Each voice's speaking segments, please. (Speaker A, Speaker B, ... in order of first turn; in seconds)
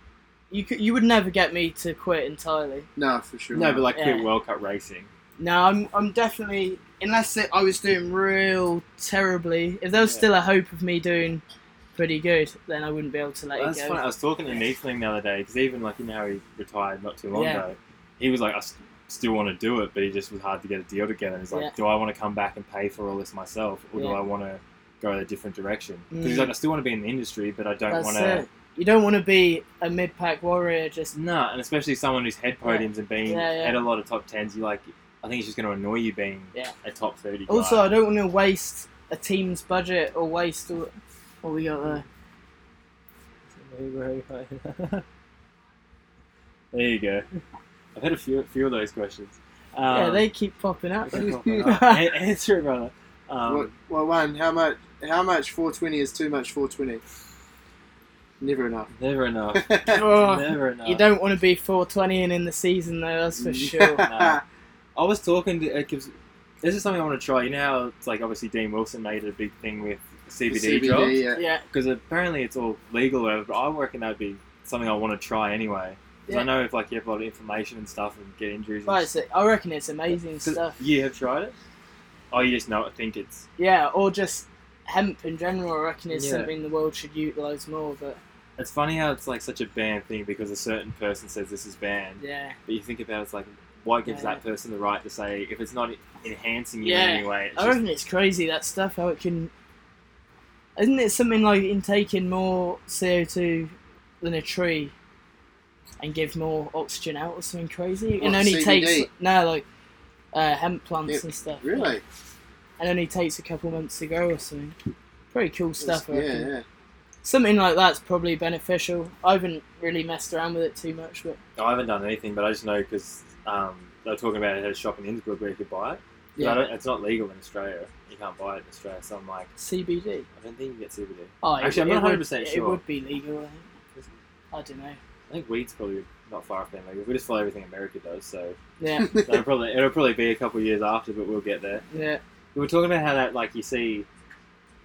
Speaker A: 0.5-2.9, 3.9-4.3, 5.4-11.4, 11.9-14.0, 17.3-17.6, 26.1-26.5, 27.9-31.1, 32.6-33.8, 37.5-42.0, 49.9-52.1, 59.9-64.0, 71.3-71.6, 78.8-80.8, 83.6-88.2, 92.2-92.6, 94.0-94.4, 96.8-99.5, 100.8-104.9, 106.0-109.6, 110.3-111.9, 112.8-114.7, 115.3-116.5, 117.2-121.4, 129.6-130.2, 131.4-133.7, 134.5-135.0, 138.8-139.2, 141.9-142.2
Speaker B: 3.0-3.9, 51.2-51.6, 53.5-57.0, 58.4-58.9, 59.5-60.0, 63.4-64.4, 70.5-71.4, 108.2-109.1, 111.1-112.0, 115.8-116.6, 126.3-126.6
Speaker C: 3.5-5.1, 10.0-10.2, 13.6-28.4, 31.1-37.9, 43.6-45.0, 46.7-47.2, 47.9-50.2, 51.0-53.7, 58.9-61.0, 64.0-64.4, 65.0-79.1, 80.1-81.5, 82.3-83.5, 86.1-86.5, 88.6-97.8, 121.5-129.5, 130.4-132.8, 135.3-138.6, 139.1-141.8, 142.5-144.1